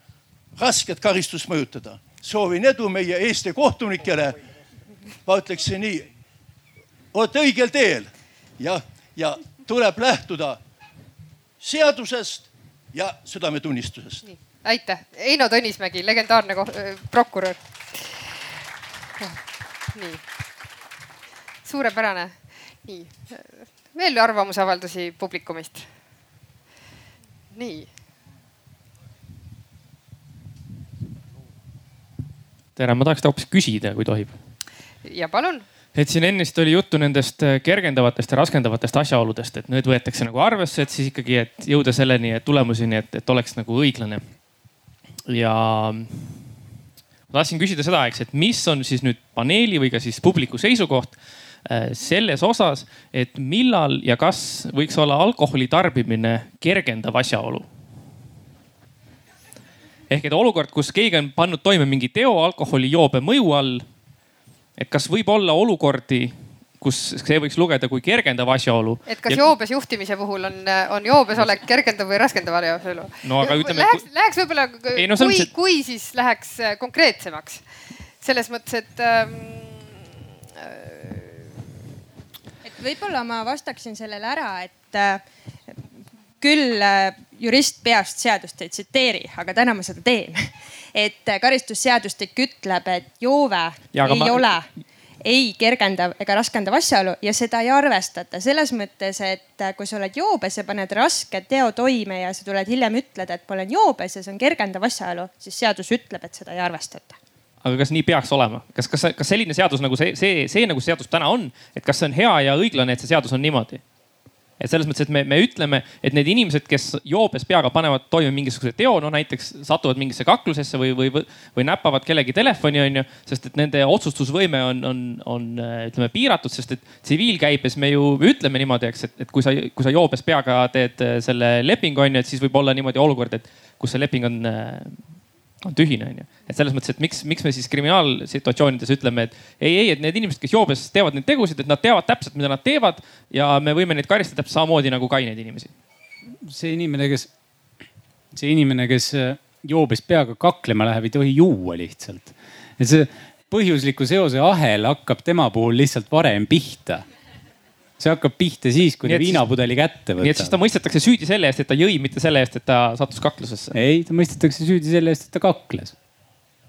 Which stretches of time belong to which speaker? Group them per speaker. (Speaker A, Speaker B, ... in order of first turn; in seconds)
Speaker A: 0.6-4.4, 5.2-6.1, 7.1-10.6, 11.6-14.2
Speaker B: 14.2-18.2, 19.9-20.2, 21.6-25.9, 27.5-27.9, 35.0-35.6, 69.0-77.6, 78.2-80.0, 80.6-81.4
Speaker C: 32.8-34.4, 35.9-44.3, 45.3-46.4, 47.3-57.7, 60.1-63.9, 64.8-69.5, 73.2-74.0, 74.9-75.5, 93.9-94.5, 107.6-113.8, 114.6-145.7, 159.0-159.4, 160.2-163.8
Speaker D: 82.6-85.2, 86.4-94.7, 95.2-107.2
Speaker E: 146.4-147.3, 148.3-157.0, 158.0-160.6, 163.7-165.9